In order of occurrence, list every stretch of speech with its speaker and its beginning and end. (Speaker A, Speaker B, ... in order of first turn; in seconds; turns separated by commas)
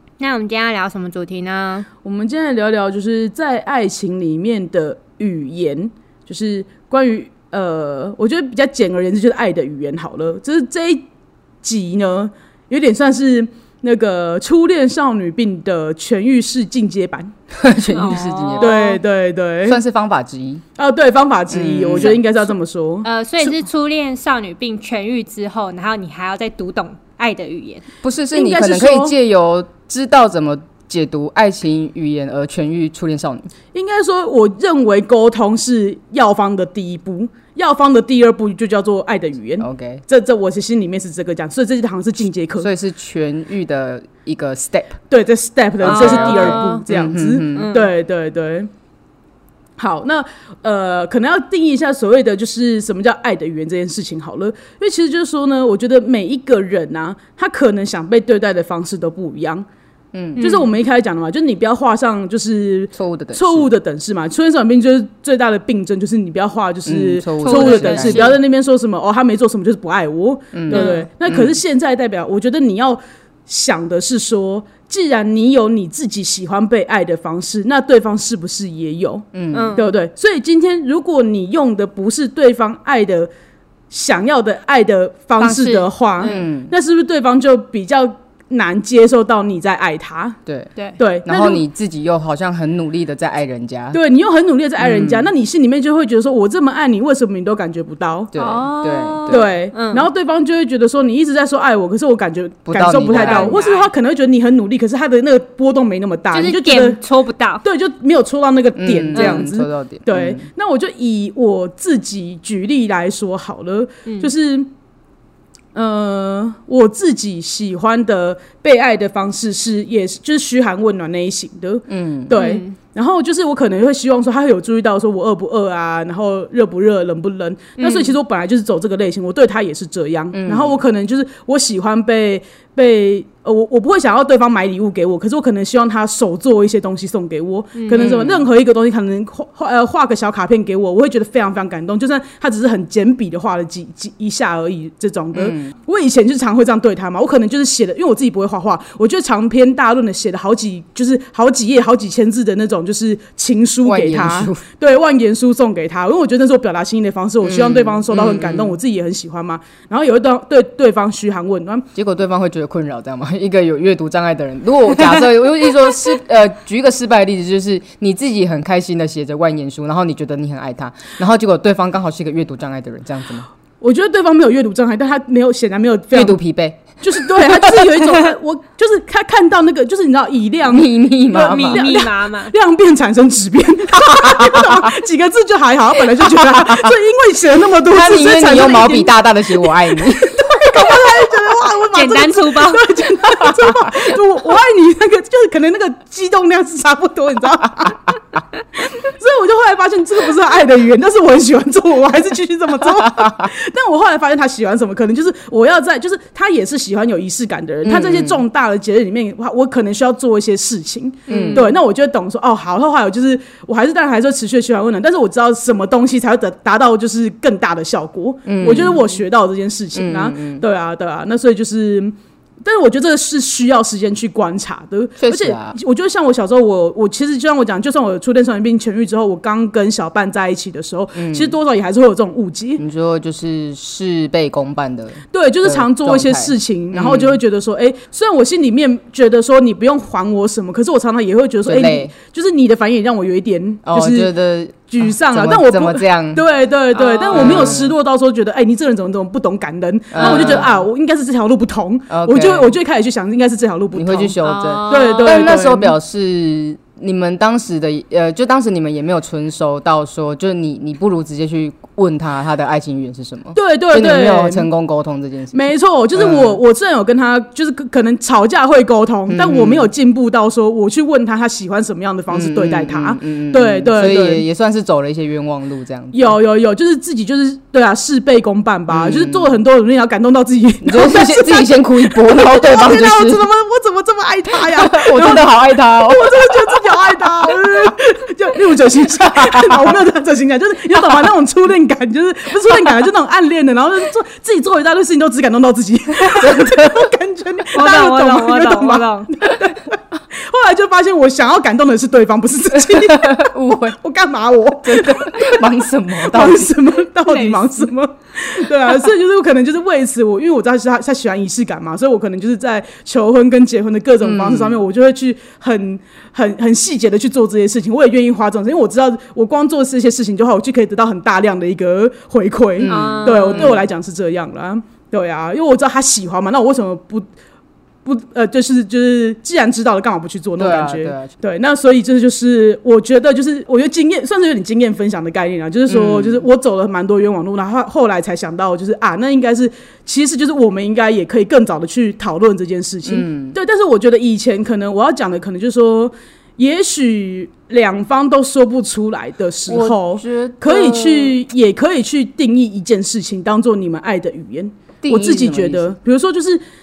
Speaker A: 0.2-1.9, Speaker B: 2.0-11.0, Speaker B: 11.6-17.3, Speaker C: 17.5-18.8, Speaker A: 17.9-19.0, Speaker B: 18.6-19.8, Speaker C: 19.6-20.6, Speaker B: 20.8-23.1, Speaker C: 21.5-22.2, Speaker A: 23.0-27.8, Speaker C: 28.0-33.5, Speaker B: 28.3-29.1, Speaker B: 33.7-42.7, Speaker C: 39.6-40.0, Speaker C: 42.6-45.0, Speaker B: 45.1-48.7, Speaker C: 45.8-47.7, Speaker A: 45.8-46.9, Speaker A: 47.5-47.9, Speaker B: 49.8-59.6, Speaker C: 60.1-60.4, Speaker A: 60.4-60.7, Speaker B: 60.4-83.3, Speaker C: 62.9-63.7, Speaker C: 66.8-68.4, Speaker A: 67.4-68.4, Speaker C: 70.5-71.5, Speaker A: 70.7-71.0, Speaker C: 79.3-79.8, Speaker A: 79.5-79.9, Speaker B: 83.9-90.4, Speaker A: 85.4-86.4, Speaker C: 86.2-86.7, Speaker C: 90.5-90.7, Speaker B: 91.0-91.6, Speaker C: 91.2-94.0, Speaker B: 93.9-98.3, Speaker C: 94.8-95.3, Speaker C: 98.3-99.5, Speaker A: 98.4-100.1, Speaker B: 99.3-107.0, Speaker C: 102.7-103.6, Speaker A: 103.2-103.9, Speaker A: 106.3-107.6, Speaker B: 107.6-114.7, Speaker C: 108.8-110.4, Speaker A: 109.1-109.4, Speaker B: 115.7-161.8, Speaker C: 121.9-122.3, Speaker A: 122.3-122.7, Speaker A: 127.8-128.1, Speaker C: 130.3-130.8, Speaker A: 137.8-138.1, Speaker C: 137.9-138.5, Speaker C: 145.3-145.7, Speaker C: 153.8-154.6, Speaker C: 157.4-158.8, Speaker C: 161.9-173.5, Speaker B: 173.8-176.4, Speaker C: 176.1-177.9, Speaker B: 177.0-198.1, Speaker C: 180.7-181.8, Speaker A: 181.3-182.5, Speaker C: 184.1-184.9, Speaker C: 186.2-186.9, Speaker C: 187.8-190.9, Speaker A: 191.9-192.8, Speaker C: 193.5-194.1, Speaker B: 198.8-232.8, Speaker C: 207.8-208.4, Speaker A: 211.3-211.7, Speaker C: 211.3-211.7, Speaker C: 218.5-219.0, Speaker C: 219.9-220.6, Speaker C: 225.2-225.8, Speaker C: 231.1-231.5, Speaker C: 232.8-237.4, Speaker B: 235.3-244.3, Speaker C: 241.6-242.1, Speaker C: 243.8-246.4, Speaker B: 244.9-255.9, Speaker A: 246.9-247.8, Speaker C: 247.3-247.9, Speaker C: 250.1-250.8, Speaker A: 250.2-250.7, Speaker C: 252.1-252.7, Speaker C: 253.9-266.6, Speaker A: 254.4-255.5, Speaker B: 263.5-264.7, Speaker B: 265.5-274.4, Speaker C: 269.3-269.9, Speaker C: 272.3-276.4, Speaker B: 276.1-303.5, Speaker C: 278.9-279.6, Speaker C: 280.8-283.4, Speaker C: 284.6-286.9, Speaker C: 287.4-287.9, Speaker C: 289.3-290.0, Speaker C: 296.3-297.1, Speaker A: 297.7-299.3, Speaker C: 302.7-304.0, Speaker B: 304.0-305.7, Speaker C: 304.8-306.8, Speaker B: 306.2-327.3, Speaker A: 307.3-307.7, Speaker C: 314.2-314.8, Speaker C: 322.8-323.8, Speaker A: 322.9-323.8, Speaker B: 328.0-356.6, Speaker C: 330.6-331.3, Speaker C: 335.9-336.4, Speaker C: 343.0-343.6, Speaker C: 349.7-351.4, Speaker C: 355.0-355.9